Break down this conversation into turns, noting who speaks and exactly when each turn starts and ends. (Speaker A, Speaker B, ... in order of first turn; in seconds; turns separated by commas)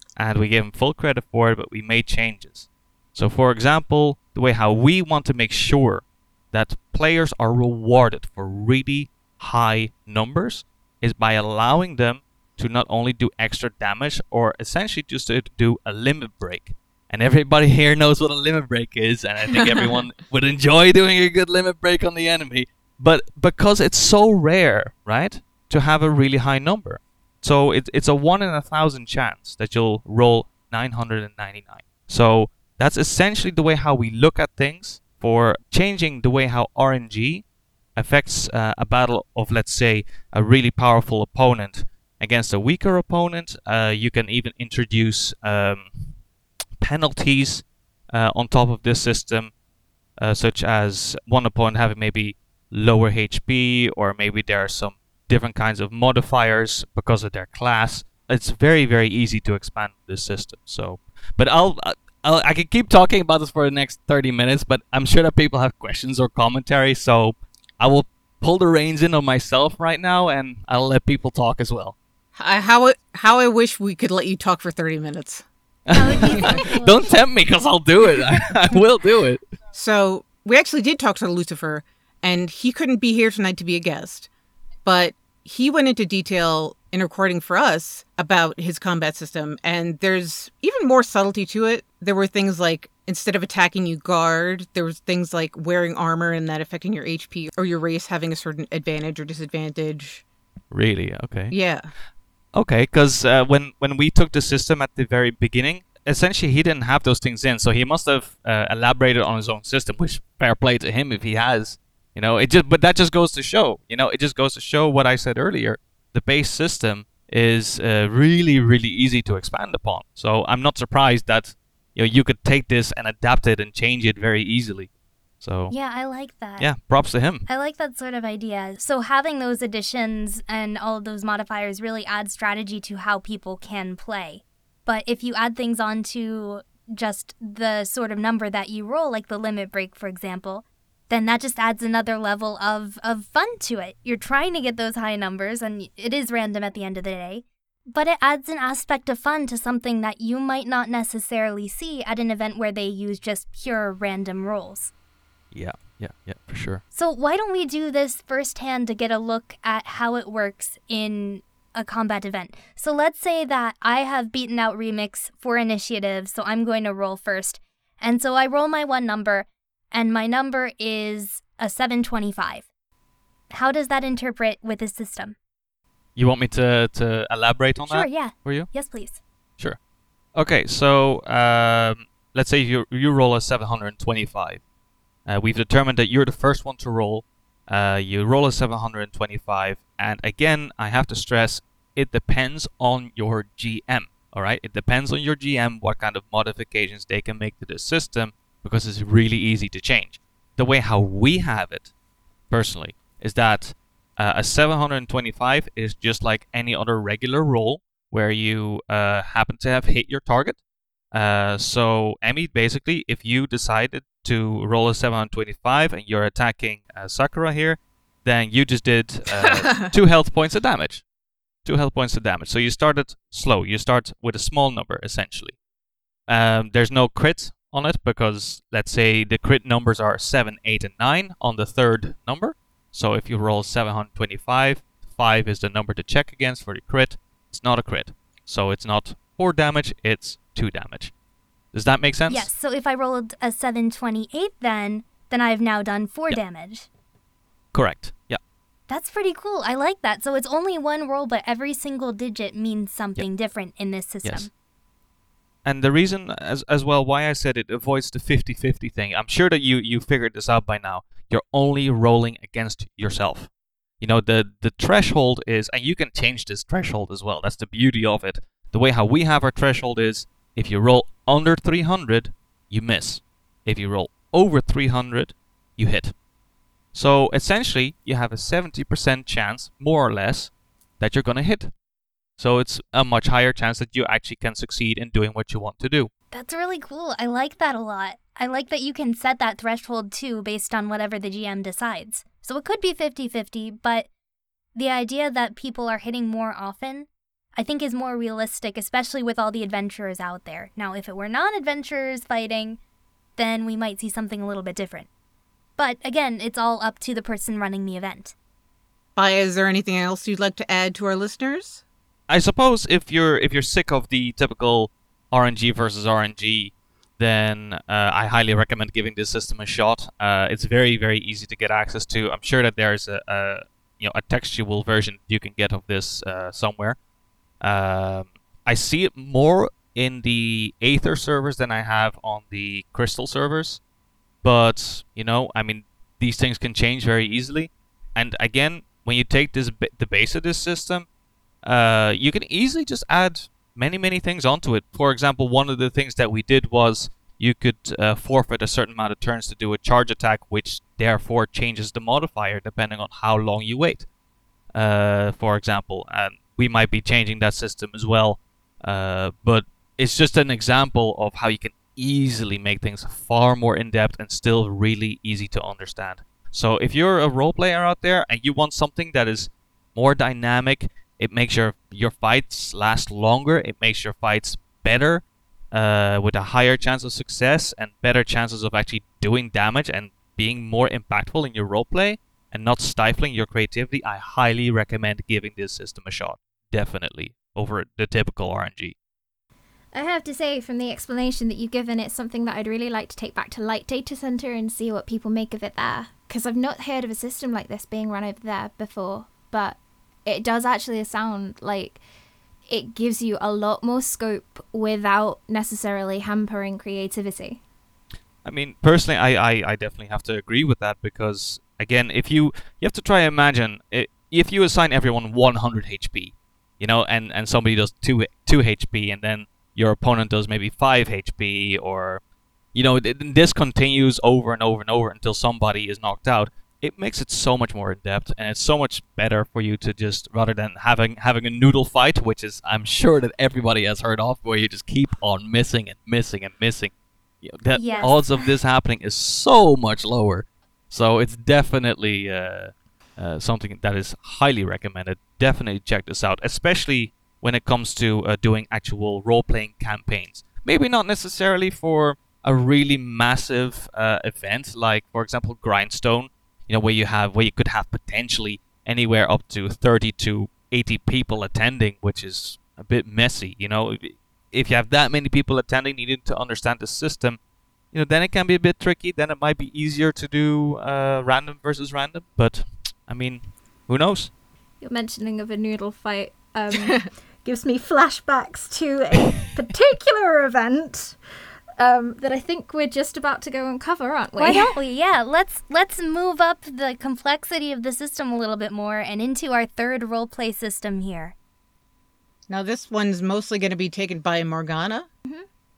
Speaker A: 0.2-37.4, Speaker B: 19.5-19.9, Speaker A: 38.0-46.1, Speaker A: 46.8-49.5, Speaker A: 50.2-71.9, Speaker B: 72.3-75.4, Speaker A: 75.9-79.4, Speaker C: 75.9-77.1, Speaker B: 79.7-84.3, Speaker B: 84.8-100.2, Speaker A: 100.7-101.5, Speaker B: 101.5-101.9, Speaker A: 102.5-124.9, Speaker A: 125.4-125.7, Speaker C: 125.7-126.7, Speaker A: 126.6-127.5, Speaker C: 127.5-154.9, Speaker A: 155.5-156.8, Speaker C: 156.9-172.7, Speaker C: 173.5-175.3, Speaker A: 176.2-178.7, Speaker C: 177.8-179.2, Speaker A: 180.3-184.6, Speaker A: 185.3-201.9, Speaker A: 202.5-210.6, Speaker A: 211.1-221.0, Speaker B: 219.5-219.9, Speaker A: 221.6-225.6, Speaker A: 226.3-241.1, Speaker A: 241.7-242.5, Speaker C: 242.3-246.9, Speaker A: 247.7-248.4, Speaker C: 248.9-254.5, Speaker A: 255.6-263.5, Speaker A: 264.0-276.1, Speaker A: 276.9-281.7, Speaker A: 282.4-286.1, Speaker C: 286.3-294.1, Speaker C: 294.7-302.8, Speaker C: 303.4-305.1, Speaker C: 305.8-308.3, Speaker B: 309.1-311.8, Speaker A: 312.3-327.0, Speaker A: 327.6-333.8, Speaker A: 334.4-341.1, Speaker A: 341.6-354.1, Speaker A: 354.7-388.9, Speaker D: 389.9-402.0, Speaker D: 402.7-407.6, Speaker A: 408.4-422.2, Speaker A: 422.7-436.9, Speaker A: 437.4-467.4, Speaker C: 437.7-438.5, Speaker A: 467.9-474.3, Speaker D: 474.8-481.2, Speaker D: 481.8-484.7, Speaker C: 484.4-491.3, Speaker B: 492.5-495.1